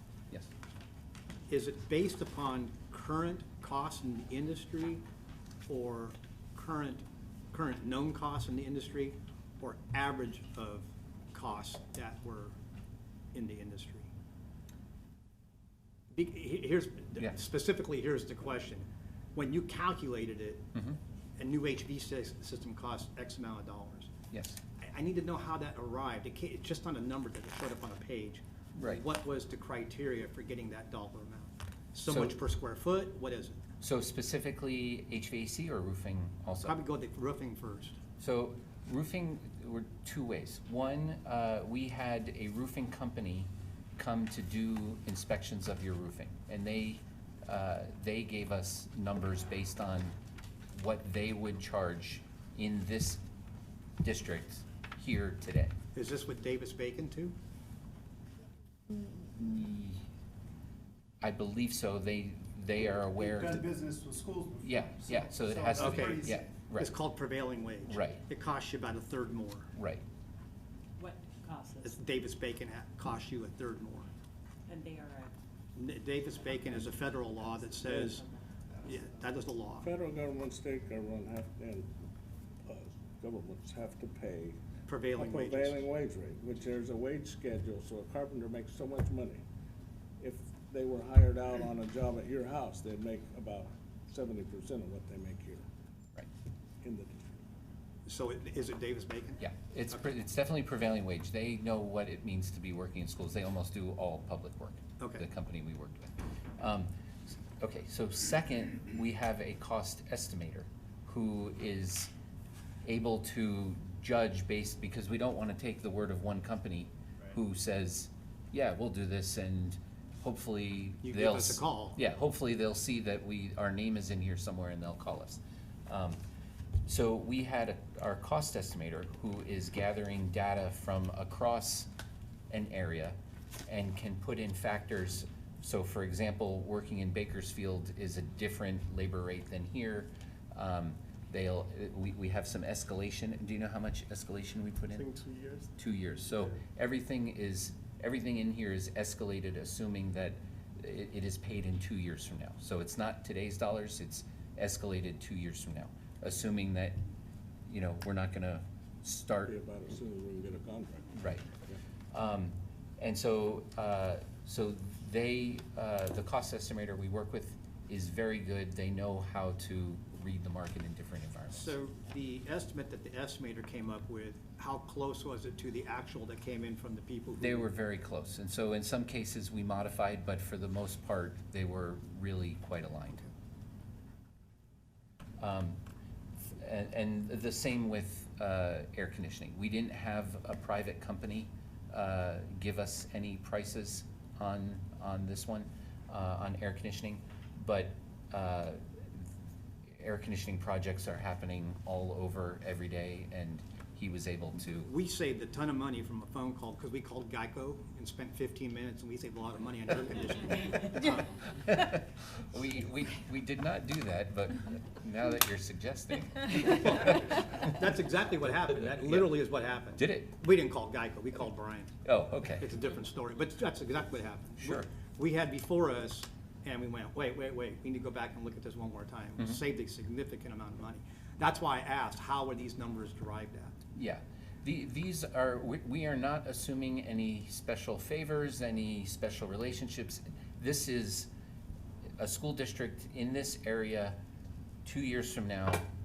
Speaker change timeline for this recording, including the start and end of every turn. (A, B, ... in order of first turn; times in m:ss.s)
0:01.5-0:05.0 A
0:05.7-0:12.6 A
0:13.3-0:14.1 A
0:16.1-0:20.7 A
0:21.4-0:24.1 A
0:24.3-0:24.6 B
0:24.8-0:33.6 A
0:28.8-0:29.0 B
0:32.1-0:32.4 B
0:33.8-0:36.8 B
0:36.6-0:38.0 A
0:38.2-0:50.2 B
0:50.7-0:53.2 B
0:54.0-0:55.7 B
0:55.9-0:57.3 A
0:58.9-1:00.0 B
1:01.2-1:03.7 B
1:03.2-1:06.4 C
1:04.6-1:06.9 B
1:05.8-1:09.7 A
1:07.8-1:08.2 B
1:09.8-1:10.0 B
1:11.0-1:12.0 D
1:11.8-1:14.1 A
1:14.7-1:15.4 D
1:15.8-1:18.2 A
1:18.1-1:18.4 D
1:18.8-1:19.9 A
1:19.8-1:22.0 E
1:22.6-1:24.6 E
1:24.9-1:25.8 A
1:25.2-1:29.4 E
1:30.2-1:35.7 E
1:36.8-1:37.4 E
1:38.1-1:40.1 A
1:39.4-1:52.1 B
1:45.0-1:45.2 A
1:52.8-2:06.2 B
2:01.0-2:02.0 A
2:06.9-2:11.9 B
2:12.5-2:13.2 B
2:13.7-2:25.1 B
2:25.8-2:37.0 B
2:37.7-2:39.6 B
2:39.5-2:41.8 E
2:41.2-2:41.5 B
2:42.1-2:51.8 B
2:51.5-2:57.7 A
2:57.4-3:03.2 B
3:05.4-3:05.8 B
3:06.4-3:19.3 B
3:20.0-3:24.9 B
3:24.7-3:31.5 A
3:31.0-3:37.6 B
3:36.6-3:42.0 A
3:39.0-3:39.4 B
3:40.0-3:40.3 B
3:42.0-3:42.7 B
3:42.6-3:53.8 A
3:44.6-3:44.9 B
3:54.0-4:01.3 B
4:02.2-4:04.2 B
4:04.8-4:05.8 B